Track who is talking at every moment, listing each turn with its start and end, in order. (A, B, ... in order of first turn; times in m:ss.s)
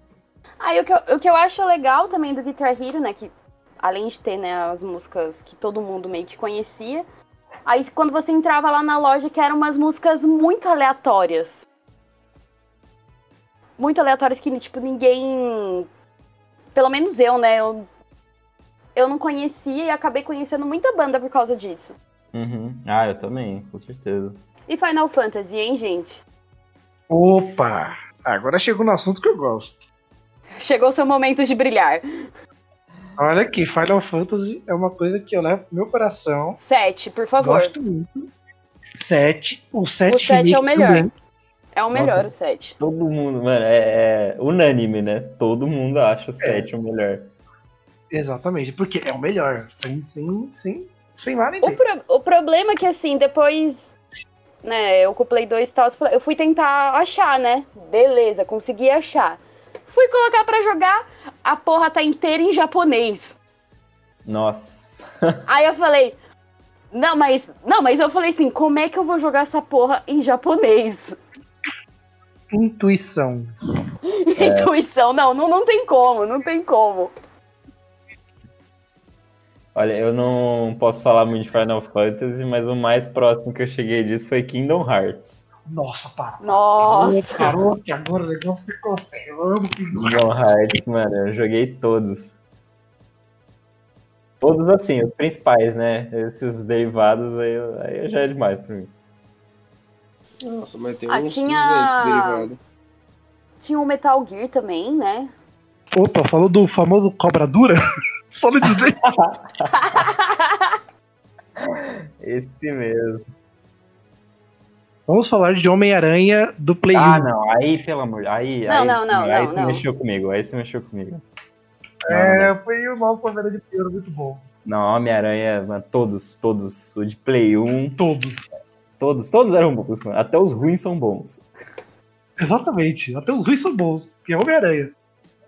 0:00.6-0:07.0 A
0:07.7-0:11.6 A
0:13.8-0:15.9 A
0:16.7-0:17.9 A
0:19.0-0:22.0 A
0:22.3-0:24.4 B
0:24.7-0:26.2 A
0:27.1-0:29.8 C
0:30.6-0:32.0 A
0:33.2-0:36.6 C
0:36.6-0:37.8 A
0:37.4-0:38.3 C
0:39.0-0:41.1 C
0:40.1-0:41.1 A
0:41.8-0:42.8 A
0:41.9-0:47.3 B
0:46.4-0:46.7 C
0:48.1-0:51.8 C
0:51.6-0:53.9 A
0:54.6-1:03.4 A
1:04.3-1:05.1 B
1:05.5-1:06.2 A
1:06.9-1:11.2 A
1:12.5-1:13.5 C
1:14.1-1:17.1 A
1:14.4-1:14.7 B
1:19.8-1:25.5 B
1:25.7-1:30.3 C
1:26.4-1:27.6 A
1:30.0-1:32.4 B
1:34.4-1:38.9 B
1:40.4-1:42.6 D
1:41.1-1:42.5 A
1:43.6-1:45.3 A
1:46.0-1:47.8 C
1:48.3-1:49.0 C
1:48.7-1:49.7 B
1:49.7-1:50.8 A
1:51.6-1:53.2 B
1:55.1-1:57.3 C
1:56.9-2:01.2 B
1:58.7-1:59.8 A
2:02.0-2:02.5 B
2:02.1-2:04.4 C
2:04.6-2:08.0 B
2:08.0-2:08.5 C
2:09.0-2:11.4 B
2:12.4-2:14.9 C